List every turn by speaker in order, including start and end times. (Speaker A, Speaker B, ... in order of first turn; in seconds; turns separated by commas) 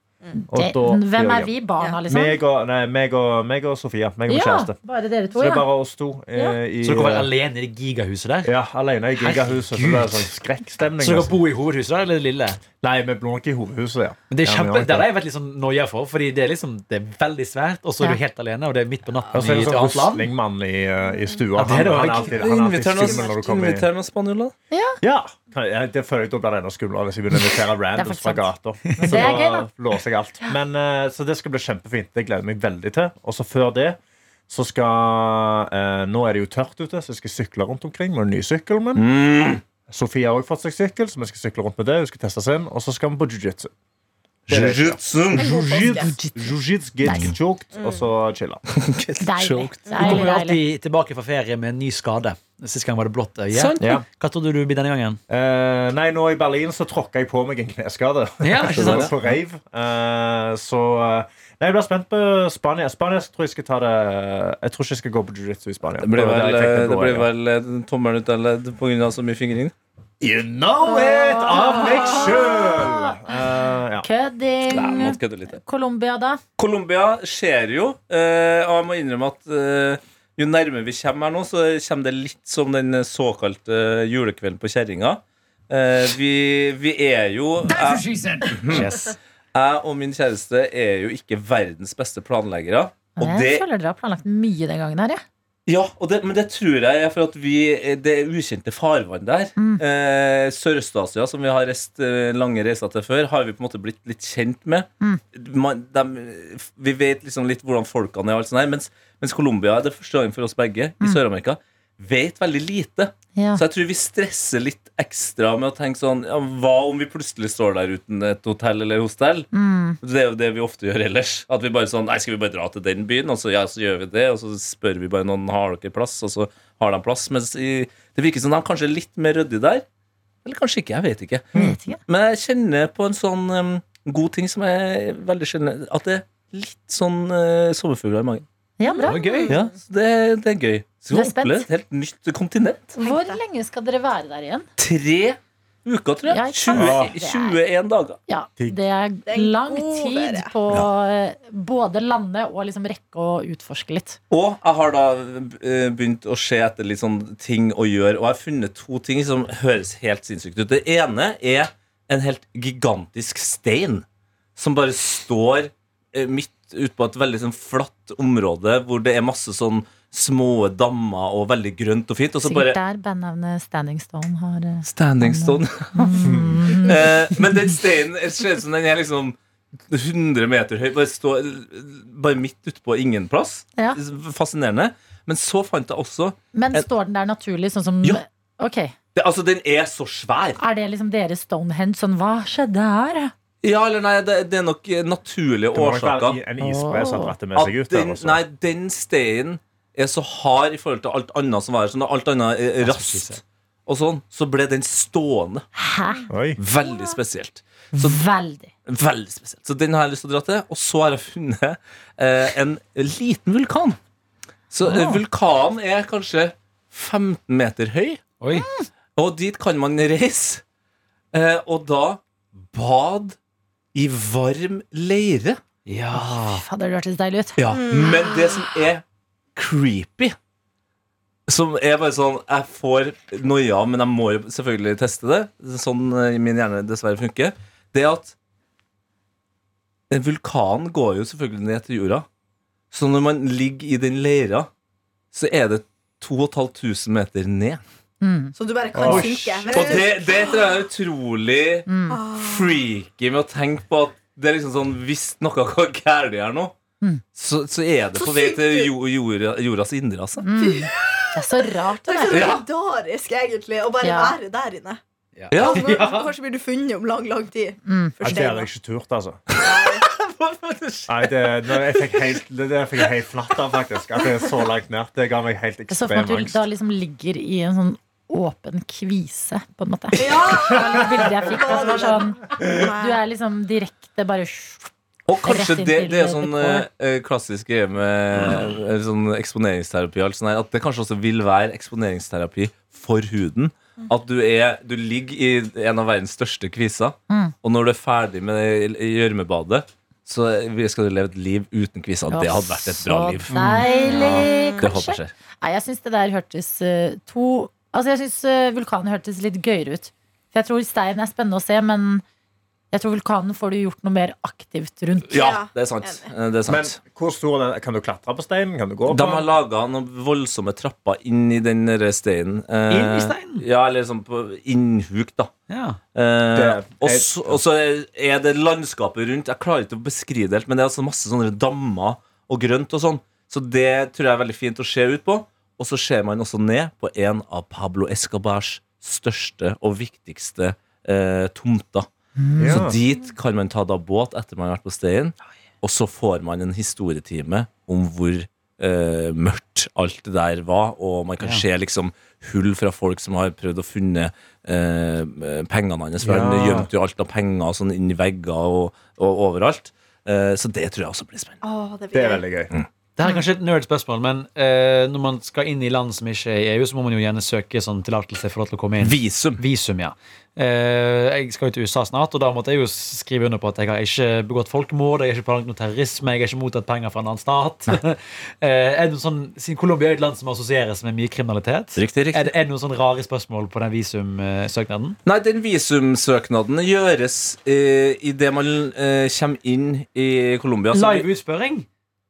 Speaker A: 0.5-1.5, Speaker B: 0.5-2.4, Speaker A: 2.1-4.8, Speaker B: 4.3-5.7, Speaker A: 5.4-7.3, Speaker C: 6.8-8.5, Speaker A: 8.4-11.3, Speaker C: 9.2-10.3, Speaker C: 11.0-12.6, Speaker A: 12.8-15.1, Speaker C: 14.3-20.3, Speaker A: 19.3-23.9, Speaker C: 21.6-22.4, Speaker D: 22.3-24.5, Speaker E: 23.0-23.3, Speaker B: 24.7-25.0, Speaker A: 25.0-39.0, Speaker B: 27.9-28.5, Speaker C: 28.9-29.3, Speaker B: 29.0-29.7, Speaker D: 39.0-39.6, Speaker A: 39.9-43.7, Speaker A: 44.5-48.6, Speaker D: 44.5-45.5, Speaker E: 45.4-46.1, Speaker B: 45.8-47.4, Speaker E: 47.7-48.1, Speaker D: 48.7-49.9, Speaker B: 49.2-50.6, Speaker E: 49.9-50.2, Speaker C: 50.0-55.2, Speaker D: 53.5-54.0, Speaker A: 53.8-54.0, Speaker A: 55.3-67.3, Speaker C: 58.4-59.3, Speaker D: 58.7-59.1, Speaker D: 66.0-69.7, Speaker A: 70.2-74.1, Speaker B: 70.8-76.4, Speaker D: 74.7-75.6, Speaker D: 76.6-93.6, Speaker C: 88.6-89.1, Speaker B: 93.2-95.2, Speaker D: 95.7-119.5, Speaker B: 99.6-99.8, Speaker B: 113.4-113.6, Speaker B: 119.5-120.0, Speaker D: 120.0-129.8, Speaker D: 130.4-138.4, Speaker B: 131.5-132.0, Speaker B: 138.8-139.6, Speaker E: 138.8-139.7, Speaker C: 139.0-139.5, Speaker D: 139.5-142.9, Speaker B: 141.1-141.7, Speaker B: 142.9-144.7, Speaker E: 143.0-143.4, Speaker D: 144.8-148.2, Speaker B: 146.2-147.6, Speaker A: 146.7-147.1, Speaker B: 148.3-154.2, Speaker E: 149.3-150.5, Speaker D: 154.3-164.1, Speaker D: 164.6-172.8, Speaker B: 172.4-177.6, Speaker D: 174.8-179.4, Speaker A: 176.2-176.6, Speaker D: 179.9-186.8, Speaker B: 186.5-188.9, Speaker D: 189.1-190.6, Speaker B: 190.6-193.3, Speaker D: 193.6-196.4, Speaker A: 195.7-198.4, Speaker B: 196.6-197.3, Speaker D: 197.5-205.7, Speaker C: 202.8-203.4, Speaker B: 205.8-206.3, Speaker A: 206.3-206.6, Speaker D: 206.6-208.2, Speaker B: 207.9-208.7, Speaker D: 208.9-214.0, Speaker D: 214.7-218.2, Speaker C: 214.9-215.1, Speaker C: 218.4-218.7, Speaker B: 218.5-218.9, Speaker D: 219.2-220.6, Speaker D: 221.3-223.4, Speaker D: 223.9-225.6, Speaker C: 225.9-226.6, Speaker B: 226.1-227.7, Speaker D: 227.6-229.0, Speaker E: 227.7-228.7, Speaker D: 229.6-230.4, Speaker D: 231.5-238.3, Speaker D: 240.1-242.3, Speaker D: 242.9-244.7, Speaker D: 245.3-247.8, Speaker B: 248.2-248.6, Speaker E: 248.6-250.7, Speaker A: 248.9-250.0, Speaker D: 249.0-256.7, Speaker B: 251.9-252.2, Speaker E: 252.1-252.8, Speaker D: 257.4-260.4, Speaker E: 258.1-258.9, Speaker B: 260.4-262.6, Speaker E: 260.6-265.0, Speaker D: 262.3-262.6, Speaker B: 264.0-264.4, Speaker C: 265.4-266.3, Speaker D: 265.5-266.0, Speaker E: 265.6-268.7, Speaker B: 267.9-268.4, Speaker A: 268.2-269.4, Speaker D: 269.5-272.2, Speaker E: 269.6-270.1, Speaker A: 271.1-276.6, Speaker B: 275.9-286.9, Speaker E: 280.1-283.2, Speaker D: 285.3-305.3, Speaker B: 297.3-297.6, Speaker B: 302.3-312.2, Speaker C: 303.5-303.9, Speaker E: 303.8-304.9, Speaker B: 312.9-315.4, Speaker D: 315.3-316.9, Speaker E: 315.3-316.3, Speaker A: 316.7-319.5, Speaker D: 319.1-325.5, Speaker C: 322.9-323.6, Speaker C: 325.7-326.0, Speaker D: 326.1-342.1, Speaker A: 326.5-327.6, Speaker B: 342.4-342.9, Speaker A: 342.6-343.0, Speaker D: 342.6-361.6, Speaker A: 356.2-356.9, Speaker E: 361.6-362.4, Speaker A: 362.1-362.7, Speaker C: 363.2-385.2, Speaker D: 369.0-369.6, Speaker D: 381.9-382.5, Speaker D: 385.2-391.3, Speaker C: 390.9-391.9